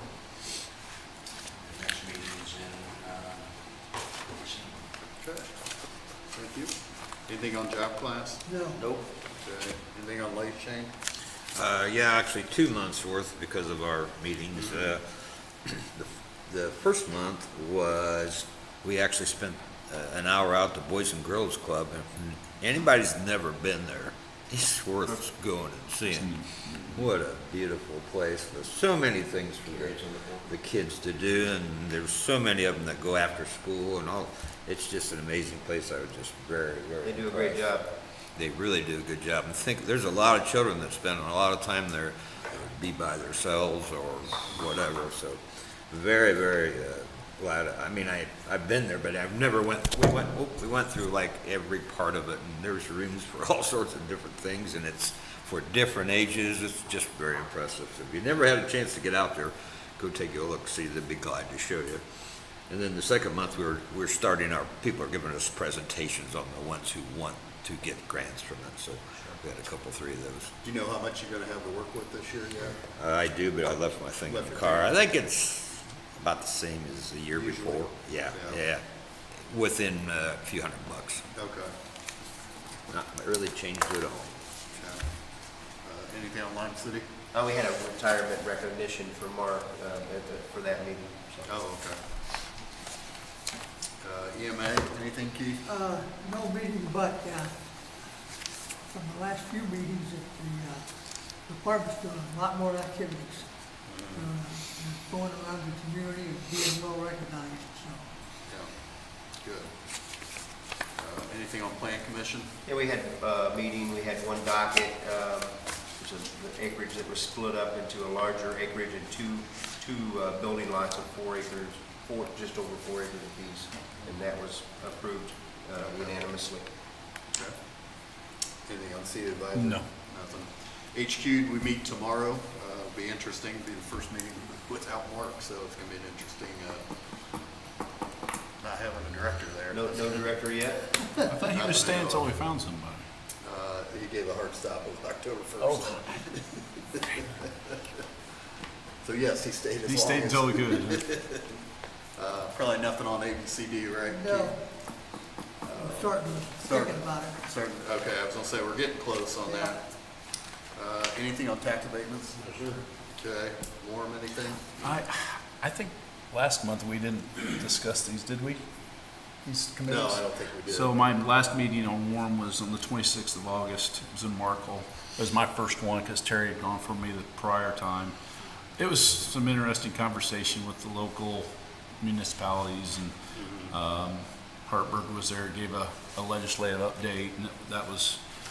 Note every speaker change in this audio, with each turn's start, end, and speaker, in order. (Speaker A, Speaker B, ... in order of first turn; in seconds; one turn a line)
Speaker A: 1.5-4.9
Speaker B: 5.2-8.6
Speaker C: 8.4-8.8
Speaker D: 8.8-9.0
Speaker B: 9.2-10.9
Speaker D: 11.5-37.7
Speaker B: 14.5-14.9
Speaker E: 26.1-27.1
Speaker F: 29.6-30.6
Speaker F: 37.0-37.9
Speaker D: 38.3-70.5
Speaker B: 70.6-72.8
Speaker D: 72.9-78.8
Speaker B: 74.2-75.0
Speaker B: 77.3-78.7
Speaker D: 79.3-81.2
Speaker B: 81.3-81.7
Speaker D: 82.9-84.3
Speaker B: 84.7-87.1
Speaker F: 87.3-91.5
Speaker B: 91.4-92.0
Speaker B: 94.0-95.6
Speaker C: 95.6-97.5
Speaker C: 98.9-108.0
Speaker B: 103.8-104.4
Speaker B: 108.5-110.3
Speaker B: 111.0-112.5
Speaker F: 112.6-126.7
Speaker B: 125.9-126.2
Speaker B: 128.6-137.0
Speaker E: 129.5-129.9
Speaker B: 138.6-140.3
Speaker F: 139.7-141.3
Speaker E: 141.3-143.0
Speaker B: 141.5-142.4
Speaker B: 143.4-146.6
Speaker E: 145.6-146.2
Speaker B: 147.2-147.8
Speaker B: 149.0-151.6
Speaker E: 149.8-151.1
Speaker B: 152.1-155.1
Speaker C: 154.1-154.7
Speaker B: 155.6-162.4
Speaker C: 155.7-157.4
Speaker C: 159.4-159.8
Speaker A: 162.4-162.8
Speaker B: 163.1-165.0
Speaker E: 164.8-168.6
Speaker E: 169.2-178.1
Speaker B: 169.8-171.1
Speaker E: 178.8-181.5
Speaker E: 182.0-188.2
Speaker B: 183.3-183.7